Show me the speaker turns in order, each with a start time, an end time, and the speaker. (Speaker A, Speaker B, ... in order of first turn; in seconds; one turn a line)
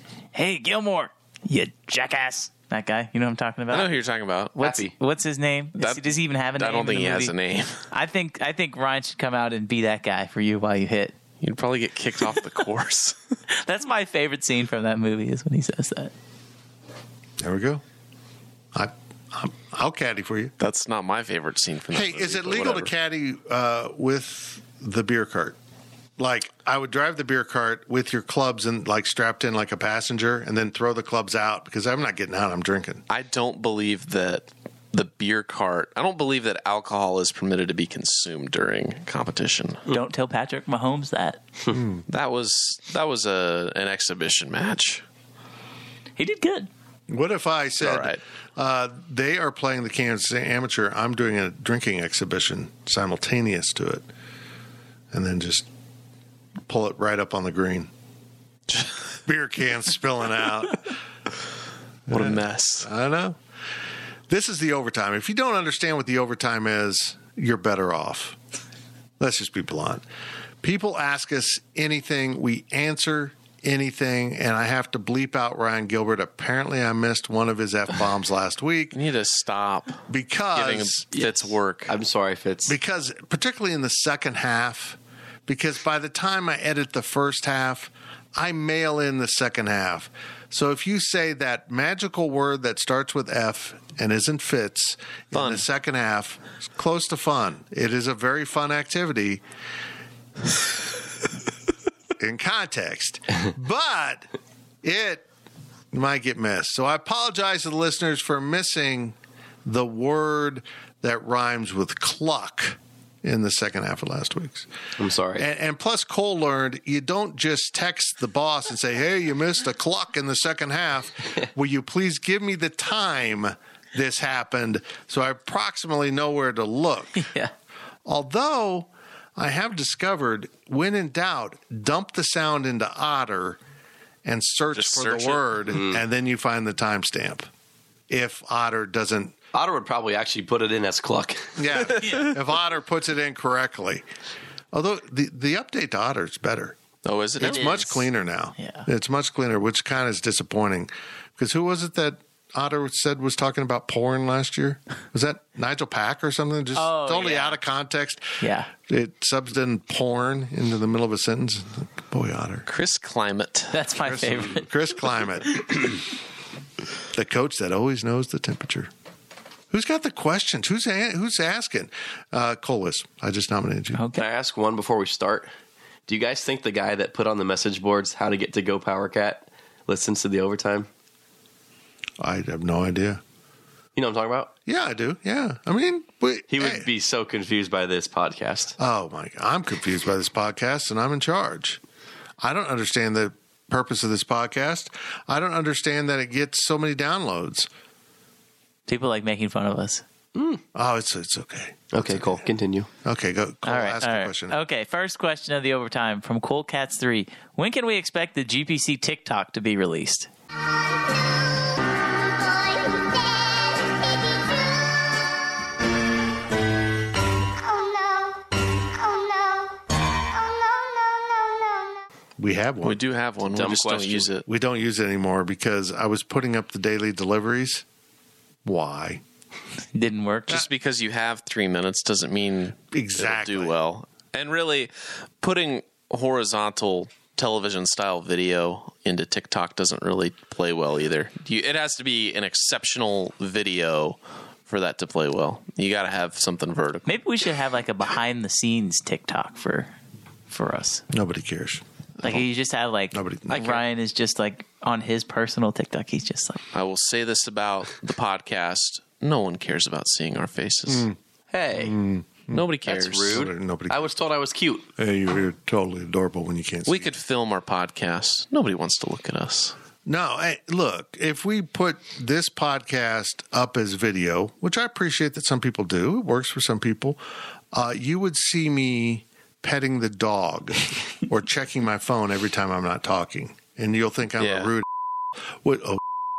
Speaker A: 0.3-3.9
Speaker B: 3.7-4.6
Speaker A: 4.5-7.3
Speaker C: 4.6-4.9
Speaker B: 5.8-7.8
Speaker A: 7.9-11.1
Speaker B: 11.4-13.2
Speaker A: 13.5-16.1
Speaker D: 17.4-17.8
Speaker D: 18.7-20.5
Speaker B: 20.6-22.9
Speaker D: 21.9-25.6
Speaker D: 26.2-33.0
Speaker B: 33.1-39.9
Speaker A: 39.9-41.4
Speaker D: 41.7-42.0
Speaker B: 42.1-45.0
Speaker A: 46.2-46.7
Speaker D: 47.1-54.1
Speaker B: 47.8-48.2
Speaker D: 55.1-55.7
Speaker D: 56.7-57.9
Speaker D: 59.2-60.9
Speaker D: 62.1-63.4
Speaker B: 62.1-62.9
Speaker D: 64.3-68.4
Speaker D: 69.2-70.0
Speaker D: 70.6-79.0
Speaker B: 78.9-80.0
Speaker D: 80.1-81.0
Speaker B: 80.5-81.9
Speaker C: 81.1-82.8
Speaker D: 82.7-99.4
Speaker B: 95.3-95.6
Speaker D: 102.2-104.3
Speaker D: 104.8-105.2
Speaker D: 105.9-114.7
Speaker C: 115.0-115.4
Speaker D: 115.4-127.2
Speaker A: 127.2-127.5
Speaker D: 128.1-133.6
Speaker D: 134.2-137.5
Speaker B: 134.7-135.6
Speaker C: 135.7-136.0
Speaker D: 138.1-139.4
Speaker C: 139.5-141.8
Speaker D: 141.6-144.1
Speaker D: 144.7-146.8
Speaker B: 147.1-148.1
Speaker D: 147.4-162.7
Speaker A: 148.6-148.9
Speaker A: 156.8-157.6
Speaker A: 158.4-158.7
Speaker B: 162.7-163.7
Speaker A: 163.7-164.7
Speaker D: 164.0-165.9
Speaker D: 167.1-168.9
Speaker D: 169.7-174.0
Speaker A: 173.9-174.3
Speaker C: 174.1-175.5
Speaker C: 176.1-180.9
Speaker D: 182.2-183.2
Speaker C: 183.9-184.5
Speaker D: 184.7-186.9
Speaker C: 186.5-188.8
Speaker D: 188.8-191.8
Speaker D: 192.4-197.7
Speaker A: 198.9-200.0
Speaker C: 200.3-200.6
Speaker D: 200.7-202.5
Speaker C: 201.9-202.9
Speaker D: 203.0-204.6
Speaker A: 203.6-210.3
Speaker D: 222.4-223.0
Speaker B: 222.8-224.4
Speaker C: 223.6-224.3
Speaker D: 224.4-227.8
Speaker D: 228.6-229.2
Speaker A: 229.9-230.6
Speaker B: 230.5-247.1
Speaker D: 232.9-233.8
Speaker A: 247.1-249.9
Speaker A: 250.5-251.0
Speaker D: 251.1-252.4
Speaker A: 252.2-256.6
Speaker D: 253.1-253.8
Speaker C: 253.5-253.8
Speaker B: 256.7-261.1
Speaker D: 260.9-261.2
Speaker C: 261.5-262.0
Speaker D: 261.8-262.6
Speaker B: 262.5-263.4
Speaker C: 262.8-264.9
Speaker D: 263.2-264.1
Speaker D: 265.0-267.1
Speaker B: 266.9-269.8
Speaker D: 270.1-277.2
Speaker D: 277.7-284.9
Speaker B: 284.4-284.7
Speaker D: 285.6-286.0